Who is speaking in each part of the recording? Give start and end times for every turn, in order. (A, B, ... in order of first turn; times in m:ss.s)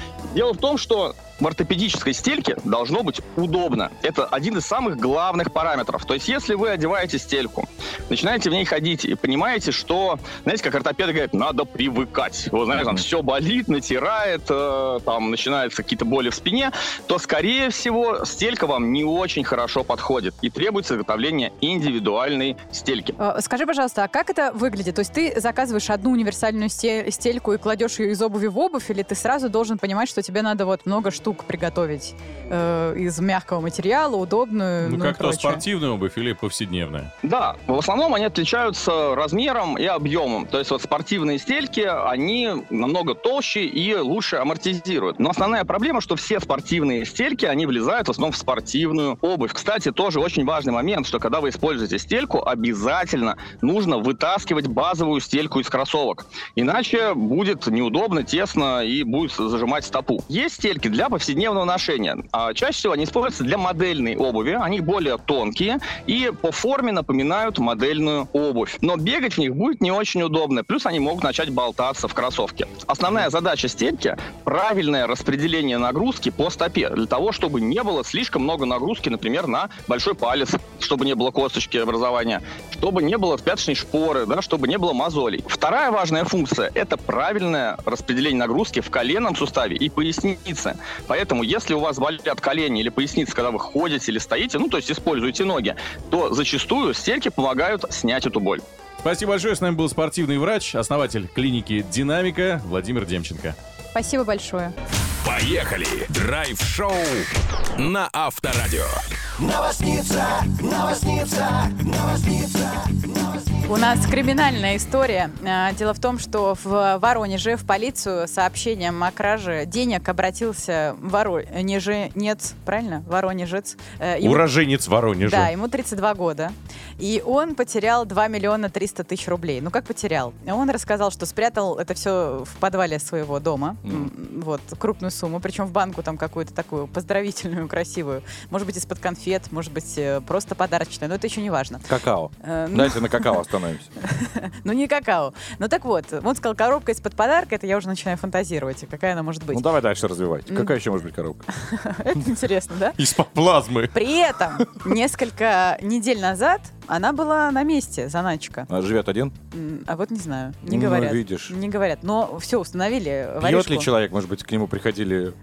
0:00.3-0:23.2 A
0:23.2-0:35.6 B
0:34.8-0:37.1 C
0:37.2-1:38.6 A
1:39.0-1:43.6 C
1:43.9-1:44.7 B
1:45.2-1:49.0 D
1:50.9-1:51.3 D
1:53.6-2:04.5 B
2:04.2-2:05.5 C
2:05.2-2:21.9 B
2:13.8-2:14.1 E
2:21.9-2:23.9 E
2:22.4-2:23.4 B
2:24.0-2:29.6 B
2:29.5-2:31.4 E
2:31.6-2:33.0 B
2:33.0-2:34.0 C
2:33.9-2:38.7 B
2:38.7-2:39.3 E
2:39.5-2:43.9 B
2:40.6-2:41.5 E
2:43.4-2:45.4 E